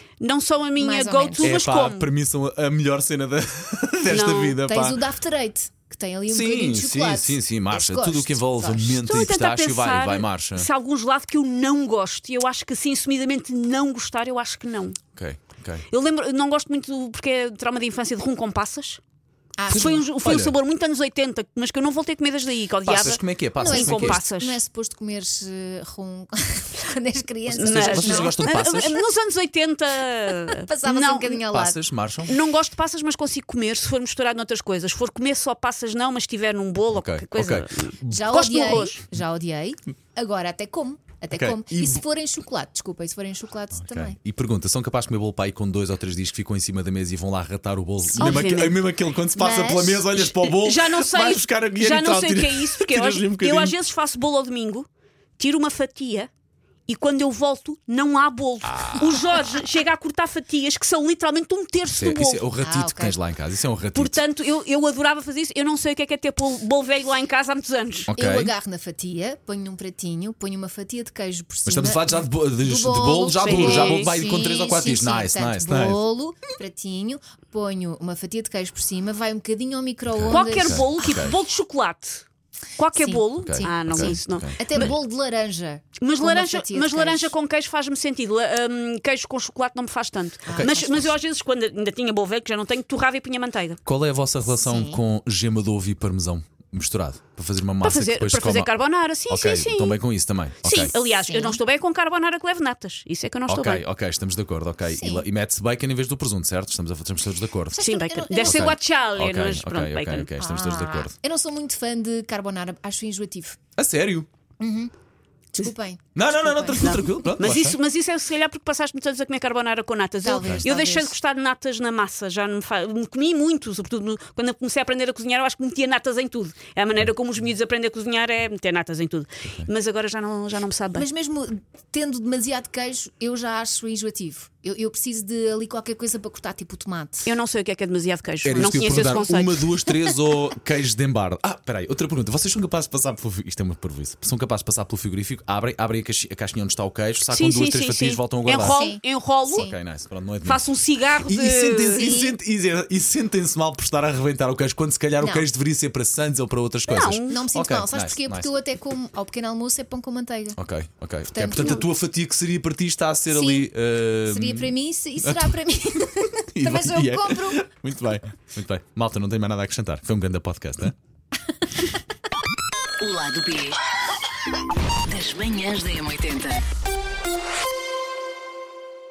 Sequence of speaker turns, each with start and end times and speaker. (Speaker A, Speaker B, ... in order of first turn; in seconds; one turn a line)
Speaker A: 0.2-2.1
Speaker B: 0.8-1.6
Speaker C: 1.4-5.0
Speaker A: 4.1-4.6
Speaker B: 4.6-9.0
Speaker C: 6.3-10.7
Speaker A: 9.0-15.0
Speaker C: 15.2-15.8
Speaker A: 15.9-19.0
Speaker B: 19.6-20.1
Speaker C: 19.7-20.6
Speaker A: 19.7-24.6
Speaker C: 22.8-24.2
Speaker B: 23.6-28.4
Speaker A: 27.5-31.5
Speaker C: 27.6-29.0
Speaker B: 30.3-31.8
Speaker C: 31.5-32.4
Speaker A: 32.3-39.0
Speaker C: 36.9-38.2
Speaker B: 38.1-44.2
Speaker C: 41.3-42.0
Speaker C: 43.7-53.8
Speaker A: 48.1-48.8
Speaker B: 48.1-48.6
Speaker B: 49.3-50.2
Speaker A: 50.2-54.9
Speaker A: 55.4-56.3
Speaker A: 56.9-62.5
Speaker C: 58.7-59.2
Speaker C: 62.0-64.2
Speaker B: 62.6-63.2
Speaker A: 64.0-68.1
Speaker C: 68.1-68.5
Speaker B: 68.2-81.2
Speaker C: 71.7-76.0
Speaker A: 73.4-74.1
Speaker C: 80.1-81.4
Speaker A: 80.3-82.2
Speaker A: 82.8-85.0
Speaker B: 82.9-87.3
Speaker C: 83.4-85.0
Speaker A: 86.0-93.8
Speaker B: 90.5-91.1
Speaker C: 90.5-90.8
Speaker C: 93.8-98.7
Speaker B: 94.5-95.0
Speaker A: 97.8-100.0
Speaker C: 99.3-101.0
Speaker A: 100.6-103.8
Speaker B: 101.3-101.6
Speaker C: 103.5-107.8
Speaker B: 104.9-105.2
Speaker B: 107.7-108.8
Speaker A: 107.8-110.3
Speaker C: 108.4-111.1
Speaker B: 110.4-113.6
Speaker C: 113.8-114.3
Speaker B: 114.6-114.9
Speaker B: 115.5-117.2
Speaker C: 116.2-117.8
Speaker A: 116.8-131.1
Speaker B: 120.2-121.1
Speaker B: 130.9-137.3
Speaker A: 137.2-139.8
Speaker C: 138.4-148.8
Speaker B: 138.6-138.8
Speaker A: 147.3-149.7
Speaker B: 148.7-149.8
Speaker C: 149.5-150.7
Speaker A: 150.4-152.1
Speaker C: 151.3-158.5
Speaker B: 152.0-152.4
Speaker B: 155.2-155.5
Speaker A: 156.9-157.4
Speaker B: 157.1-160.6
Speaker C: 160.6-165.8
Speaker B: 161.3-161.9
Speaker A: 161.6-161.8
Speaker B: 163.3-163.7
Speaker B: 164.3-167.6
Speaker C: 166.5-171.0
Speaker D: 173.0-173.8
Speaker D: 175.1-176.6